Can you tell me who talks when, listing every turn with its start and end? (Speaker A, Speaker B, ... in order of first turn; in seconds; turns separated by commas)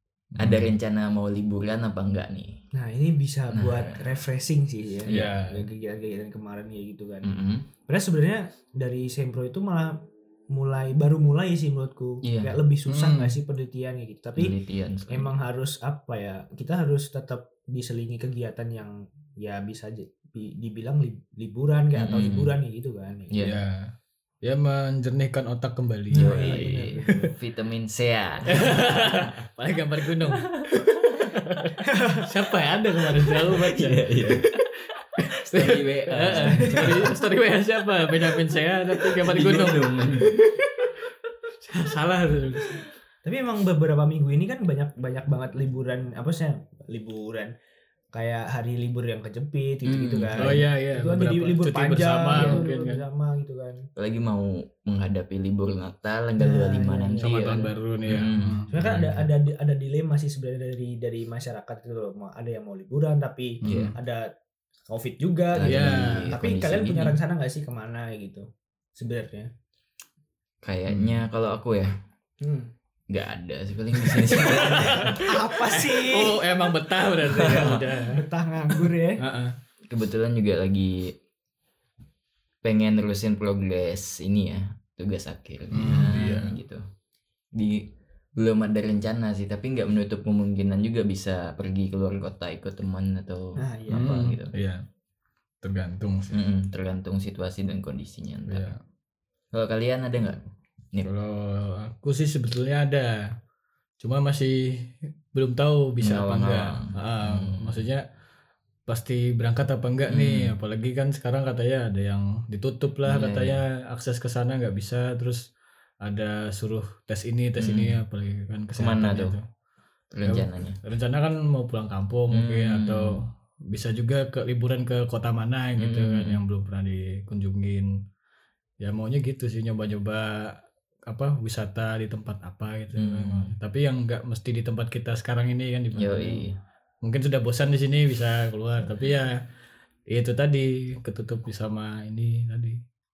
Speaker A: 0.3-0.7, Speaker B: 0.4-2.6, Speaker C: 2.7-7.3, Speaker B: 3.5-4.0, Speaker B: 5.0-5.3, Speaker A: 5.1-5.6, Speaker B: 7.2-7.7, Speaker C: 7.9-14.5, Speaker B: 12.2-12.6, Speaker A: 12.9-13.3, Speaker B: 14.3-15.3, Speaker C: 15.1-23.3, Speaker B: 21.9-22.5, Speaker B: 23.3-23.6, Speaker A: 23.4-27.3, Speaker B: 26.1-29.3, Speaker C: 26.1-27.1, Speaker A: 28.5-34.0, Speaker B: 30.3-30.7, Speaker C: 31.8-32.3, Speaker B: 33.5-34.5, Speaker A: 35.1-41.1, Speaker B: 35.4-37.1, Speaker C: 36.5-36.9, Speaker B: 39.1-40.4, Speaker A: 41.6-42.8, Speaker C: 43.2-47.5, Speaker C: 48.1-53.8, Speaker B: 49.8-50.6, Speaker A: 50.4-53.0, Speaker B: 52.3-52.6, Speaker B: 54.0-59.2, Speaker C: 56.4-57.7, Speaker A: 57.2-58.7, Speaker C: 58.7-64.3, Speaker A: 63.6-63.9, Speaker B: 63.6-63.9, Speaker C: 64.9-69.5, Speaker B: 65.5-67.2, Speaker A: 65.6-66.3, Speaker B: 70.6-72.0, Speaker A: 70.9-71.2, Speaker C: 72.4-72.7, Speaker B: 73.1-75.2, Speaker A: 74.2-78.2, Speaker C: 74.5-76.4, Speaker B: 77.3-77.8, Speaker C: 78.1-79.2, Speaker A: 79.2-79.5, Speaker B: 79.9-81.1, Speaker B: 82.6-86.8, Speaker A: 85.7-86.5, Speaker B: 87.5-94.5, Speaker C: 93.6-94.2, Speaker A: 93.9-94.8, Speaker A: 95.6-96.3, Speaker B: 96.3-98.7, Speaker A: 98.5-98.8, Speaker B: 99.5-101.1, Speaker A: 101.0-103.2, Speaker A: 104.0-108.0, Speaker B: 106.0-107.8, Speaker A: 108.9-115.5, Speaker B: 110.1-110.5, Speaker B: 113.0-113.6, Speaker A: 116.0-119.4, Speaker B: 117.6-118.0, Speaker B: 118.8-119.3, Speaker B: 120.1-120.8, Speaker A: 120.2-127.9, Speaker B: 122.3-123.2, Speaker B: 125.8-126.4, Speaker A: 128.8-136.4, Speaker B: 132.9-133.5, Speaker B: 135.9-136.6, Speaker A: 137.0-139.4, Speaker A: 140.1-142.8